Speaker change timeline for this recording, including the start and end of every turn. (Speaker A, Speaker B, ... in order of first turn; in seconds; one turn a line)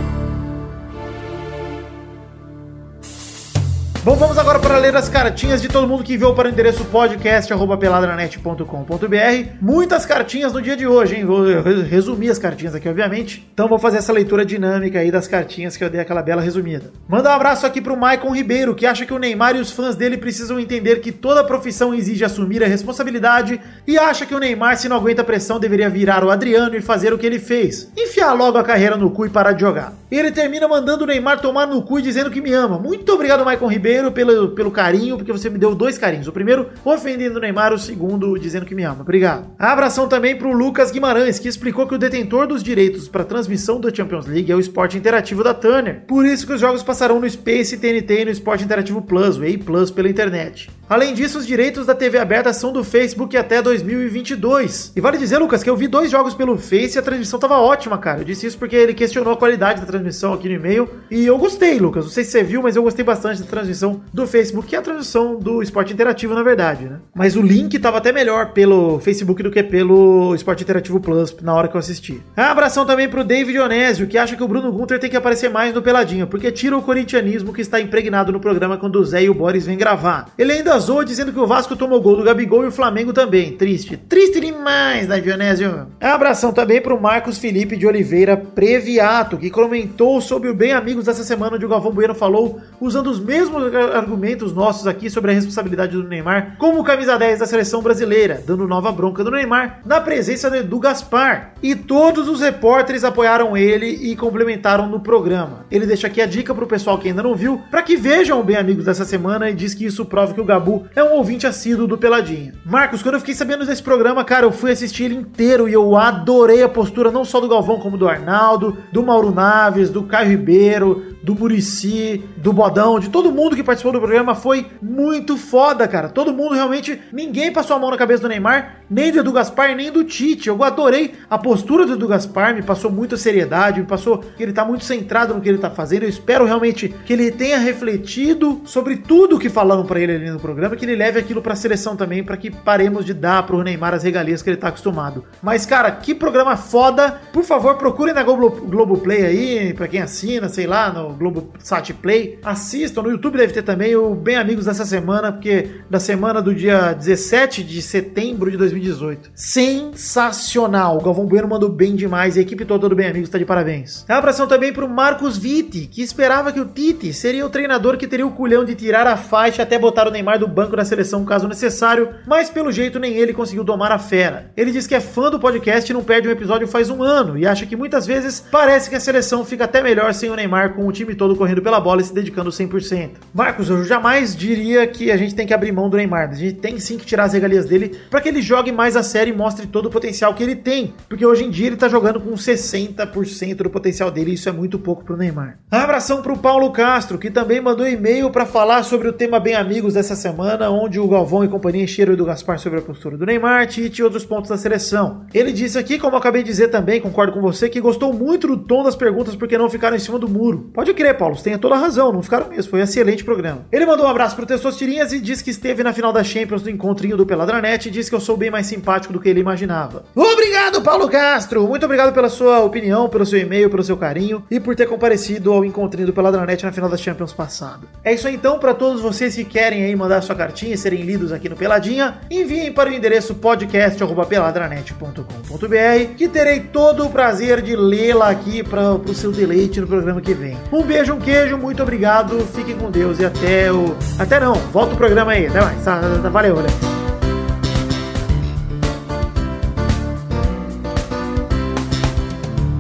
Speaker A: 4.0-246.8